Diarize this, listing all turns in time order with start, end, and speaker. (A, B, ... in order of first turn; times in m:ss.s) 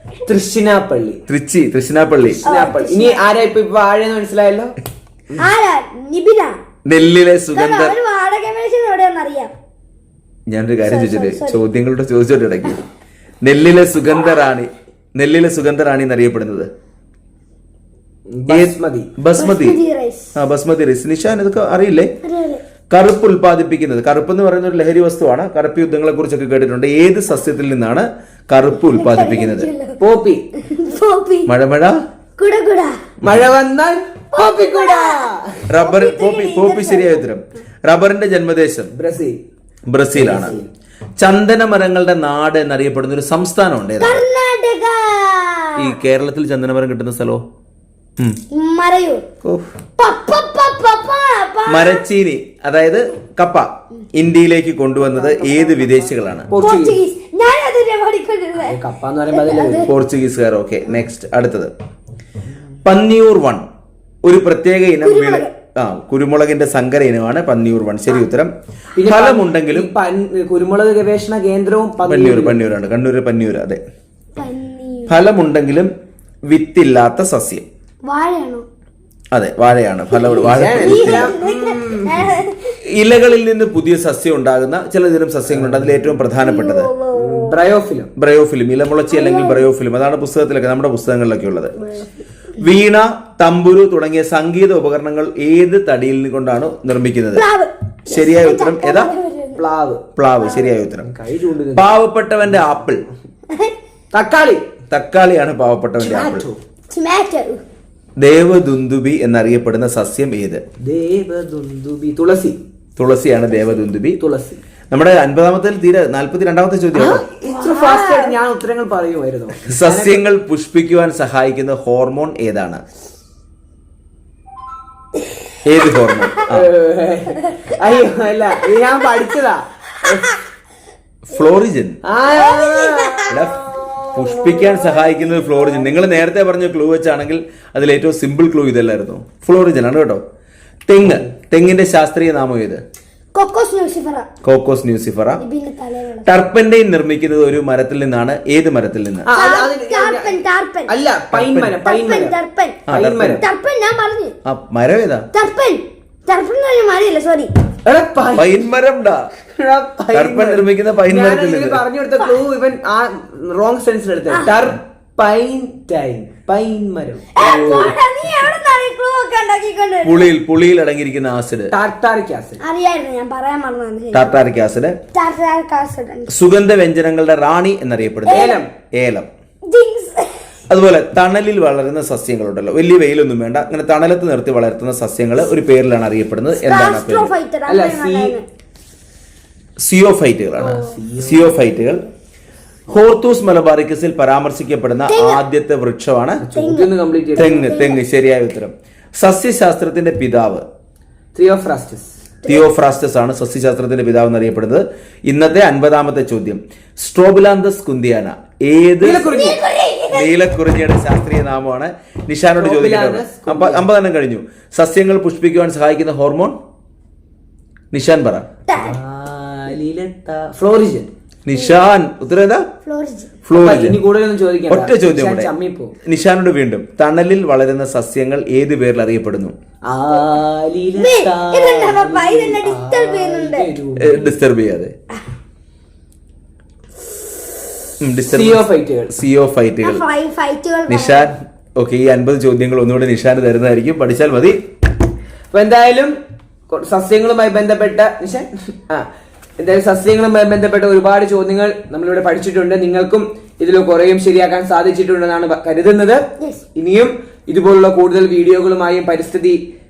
0:00.2-0:01.2 A
0:01.3-0:02.4 B
0:02.4-0:04.7 A
0:02.4-0:03.2 C
0:05.4-0:06.6 C
0:06.8-0:07.9 B
0:07.5-0:09.5 C
0:10.5-0:12.8 B
0:10.8-0:11.6 C
0:13.4-0:16.7 B
0:18.4-0:19.1 A
0:18.5-0:19.8 B
0:19.4-0:20.3 C
0:20.4-0:22.1 B
0:22.2-0:22.6 C
0:22.9-0:29.7 B
0:28.8-0:30.0 C
0:30.0-0:30.4 A
0:30.6-0:31.5 C
0:31.5-0:32.0 B
0:32.4-0:33.0 C
0:33.2-0:35.6 A
0:34.3-0:37.3 C
0:35.7-0:38.9 B
0:38.9-0:39.4 A
0:39.9-0:40.6 B
0:40.1-0:40.7 A
0:41.2-0:44.2 B
0:44.0-0:46.0 C
0:45.8-0:47.4 B
0:48.5-0:49.2 C
0:50.0-0:52.0 C
0:51.7-0:56.5 B
0:55.0-0:57.0 A
0:56.6-0:58.8 C
0:58.5-0:59.9 A
0:59.3-0:59.9 C
0:59.9-1:01.7 B
1:02.8-1:03.6 B
1:04.2-1:08.5 B
1:05.0-1:05.5 C
1:08.9-1:12.6 A
1:09.1-1:09.9 B
1:12.0-1:13.8 B
1:14.4-1:15.2 C
1:15.1-1:15.9 B
1:16.5-1:17.6 B
1:18.0-1:18.6 C
1:19.3-1:21.4 B
1:20.1-1:22.8 C
1:20.3-1:22.2 A
1:22.9-1:26.9 B
1:25.5-1:26.2 A
1:26.4-1:27.6 C
1:27.1-1:28.1 A
1:28.2-1:31.7 B
1:29.1-1:29.7 C
1:31.8-1:32.1 C
1:32.6-1:37.4 B
1:37.3-1:39.6 C
1:38.1-1:39.1 B
1:39.6-1:40.0 A
1:40.2-1:41.1 B
1:40.4-1:40.8 C
1:41.0-1:42.0 A
1:41.8-1:43.0 B
1:44.1-1:44.6 A
1:44.9-1:46.4 B
1:46.0-1:46.6 A
1:46.9-1:47.6 C
1:48.2-1:50.6 B
1:50.8-1:52.6 A
1:53.0-1:54.2 B
1:54.2-1:54.6 A
1:54.9-1:57.2 B
1:56.9-2:00.2 A
1:57.4-1:58.3 C
1:59.7-2:02.8 B
2:05.6-2:06.7 B
2:05.8-2:06.5 C
2:06.5-2:10.3 A
2:11.3-2:12.0 B
2:12.0-2:13.8 A
2:12.3-2:13.5 C
2:13.3-2:13.6 B
2:14.1-2:20.2 B
2:14.4-2:16.2 C
2:20.8-2:22.8 B
2:21.0-2:21.3 A
2:23.3-2:24.3 C
2:24.4-2:25.4 B
2:25.4-2:26.3 C
2:26.2-2:29.3 B
2:29.2-2:32.4 A
2:29.3-2:30.9 C
2:31.3-2:31.8 B
2:31.8-2:34.3 C
2:32.9-2:33.4 B
2:32.9-2:33.4 A
2:34.4-2:35.3 B
2:35.3-2:37.5 C
2:37.8-2:38.6 A
2:38.4-2:39.3 B
2:39.5-2:47.9 A
2:40.1-2:41.8 B
2:47.3-2:50.3 C
2:47.4-2:47.9 B
2:50.0-2:51.7 B
2:51.7-2:52.6 A
2:52.6-2:54.3 C
2:54.1-2:55.0 B
2:55.1-2:56.4 C
2:56.3-2:59.3 B
2:58.2-2:58.6 C
2:58.3-2:58.7 A
2:59.7-3:00.5 C
3:00.7-3:07.3 B
3:06.5-3:08.4 C
3:07.7-3:08.4 A
3:09.8-3:12.0 B
3:10.6-3:11.6 A
3:12.9-3:16.4 B
3:15.1-3:15.4 C
3:16.4-3:17.7 A
3:16.5-3:18.0 C
3:17.4-3:20.6 B
3:21.3-3:22.1 A
3:22.4-3:22.7 C
3:22.4-3:29.3 B
3:29.0-3:29.6 A
3:29.3-3:30.3 C
3:30.1-3:36.6 B
3:32.6-3:33.9 A
3:37.9-3:38.5 B
3:38.7-3:39.0 C
3:38.8-3:41.1 A
3:41.4-3:42.7 B
3:41.5-3:41.8 C
3:42.8-3:43.3 C
3:43.4-3:44.0 B
3:43.6-3:45.9 A
3:44.7-3:45.5 B
3:46.0-3:49.5 B
3:49.9-3:54.4 A
3:51.0-3:53.7 C
3:54.0-3:54.9 B
3:58.0-4:00.0 B
3:58.2-3:59.1 A
3:59.8-4:01.3 C
4:00.9-4:04.6 B
4:05.5-4:06.2 A
4:06.7-4:09.1 A
4:09.6-4:16.2 A
4:16.7-4:19.6 A